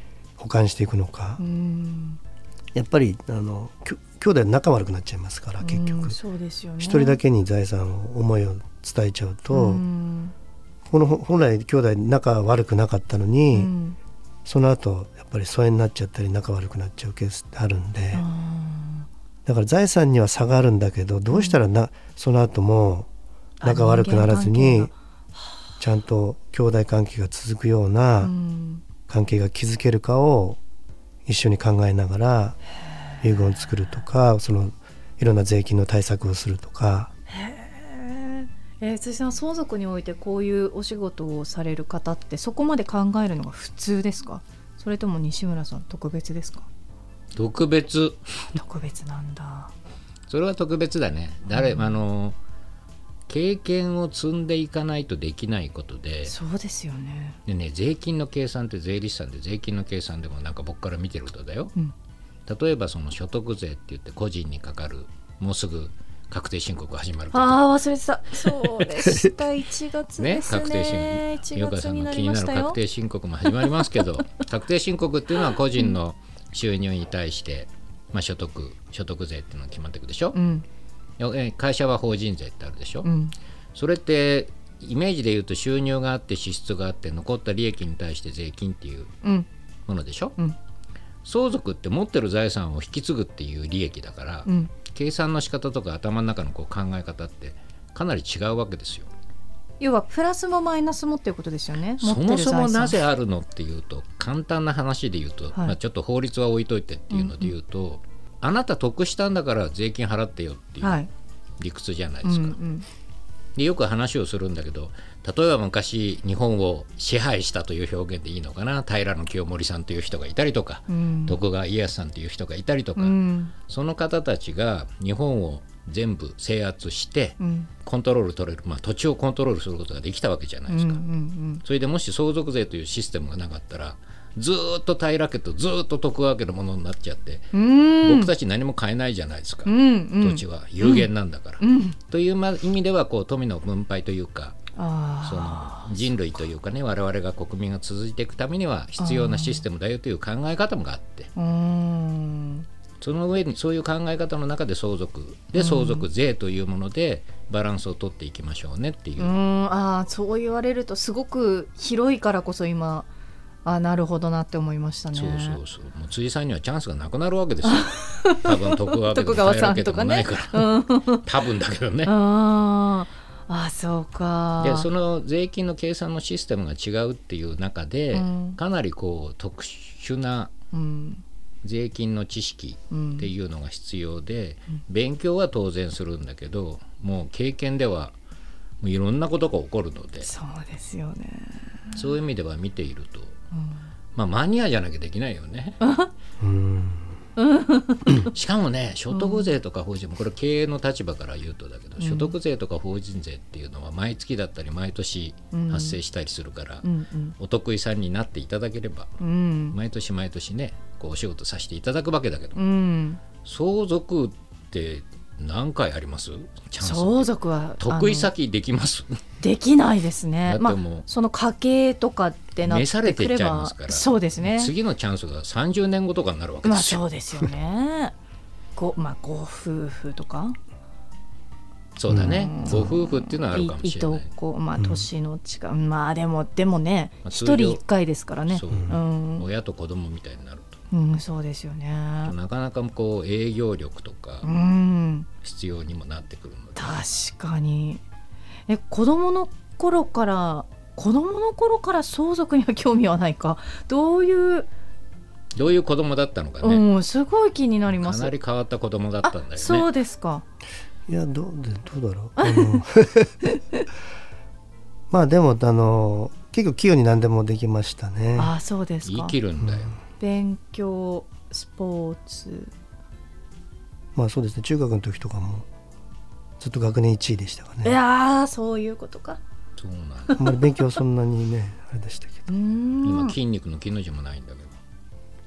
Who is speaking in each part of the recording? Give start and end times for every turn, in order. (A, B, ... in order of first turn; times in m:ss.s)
0:00.4-0:01.4 A
0:01.4-0:02.2 B
0:02.7-0:06.2 A
0:05.6-0:07.2 B
0:06.8-0:09.8 A
0:09.5-0:10.3 B
0:10.8-0:13.7 A
0:13.5-0:14.0 B
0:14.4-0:18.2 A
0:18.1-0:19.1 B
0:19.4-0:23.1 A
0:21.3-0:21.6 B
0:23.6-0:25.4 B
0:23.6-0:24.9 A
0:25.8-0:28.3 A
0:28.2-0:28.8 B
0:29.1-0:30.6 A
0:31.2-0:32.6 A
0:33.2-0:37.1 A
0:37.3-0:46.7 B
0:47.3-0:48.4 C
0:48.5-0:49.7 B
0:50.3-0:52.4 C
0:51.5-0:51.9 B
0:53.3-0:56.3 C
0:56.2-0:57.4 B
0:57.4-1:01.7 C
1:02.5-1:07.7 C
1:07.3-1:12.8 B
1:10.2-1:20.4 C
1:20.3-1:20.6 B
1:21.2-1:23.1 C
1:23.0-1:23.3 B
1:23.7-1:29.1 C
1:29.9-1:30.4 C
1:31.2-1:39.1 C
1:34.4-1:34.7 B
1:39.8-1:43.0 B
1:42.0-1:51.0 C
1:47.1-1:47.5 B
1:50.8-1:51.1 B
1:51.6-1:52.6 C
1:52.2-1:52.8 B
1:53.6-2:11.0 C
2:00.9-2:01.4 B
2:03.0-2:03.5 B
2:07.4-2:07.7 B
2:10.7-2:11.6 B
2:11.6-2:24.6 C
2:17.5-2:18.3 B
2:19.6-2:21.1 B
2:21.6-2:22.0 B
2:24.8-2:26.0 B
2:25.2-2:31.3 C
2:29.0-2:29.6 B
2:31.4-2:32.6 B
2:33.0-2:39.3 C
2:35.6-2:36.1 B
2:39.2-2:43.1 B
2:43.6-2:45.6 B
2:45.1-2:52.1 C
2:47.6-2:51.3 B
2:52.0-2:54.9 B
2:54.6-3:00.5 C
2:58.1-2:58.6 B
3:00.7-3:01.2 B
3:01.6-3:08.1 C
3:02.9-3:03.3 B
3:08.8-3:10.3 C
3:10.2-3:12.0 B
3:11.9-3:13.4 C
3:13.5-3:13.8 B
3:14.1-3:15.8 C
3:15.8-3:16.1 B
3:16.4-3:17.1 A
3:17.4-3:18.3 B
3:18.3-3:26.9 C
3:19.1-3:19.5 B
3:22.0-3:22.3 B
3:25.5-3:26.0 B
3:26.8-3:27.3 B
3:27.4-3:29.1 C
3:29.2-3:29.8 B
3:29.7-3:32.6 C
3:32.5-3:33.2 B
3:33.4-3:39.2 C
3:36.8-3:38.3 B
3:39.4-3:44.7 B
3:40.5-3:41.1 C
3:42.6-3:47.0 C
3:46.6-3:48.1 B
3:48.8-3:50.6 B
3:52.0-3:54.3 C
3:52.1-3:52.4 A
3:52.2-3:59.4 B
3:54.8-3:55.0 A
3:57.2-3:57.8 C
3:58.5-4:00.8 C
3:58.7-3:59.0 A
4:00.9-4:02.3 B
4:02.2-4:04.5 C
4:04.4-4:05.3 B
4:05.4-4:07.0 C
4:06.8-4:08.0 B
4:08.7-4:14.7 B
4:15.5-4:16.8 C
4:16.6-4:18.3 B
4:17.9-4:19.9 C
4:19.2-4:20.4 B
4:21.1-4:23.4 A
4:22.4-4:22.8 B
4:23.4-4:23.8 B
4:25.1-4:28.5 A
4:28.4-4:29.4 B
4:29.0-4:29.9 C
4:29.6-4:29.9 A
4:30.2-4:32.7 B
4:34.1-4:35.6 A
4:36.6-4:38.0 A
4:37.8-4:39.4 B
4:39.8-4:40.4 C
4:40.3-4:40.6 B
4:40.4-4:42.5 A
4:42.5-4:43.4 B
4:43.0-4:44.8 C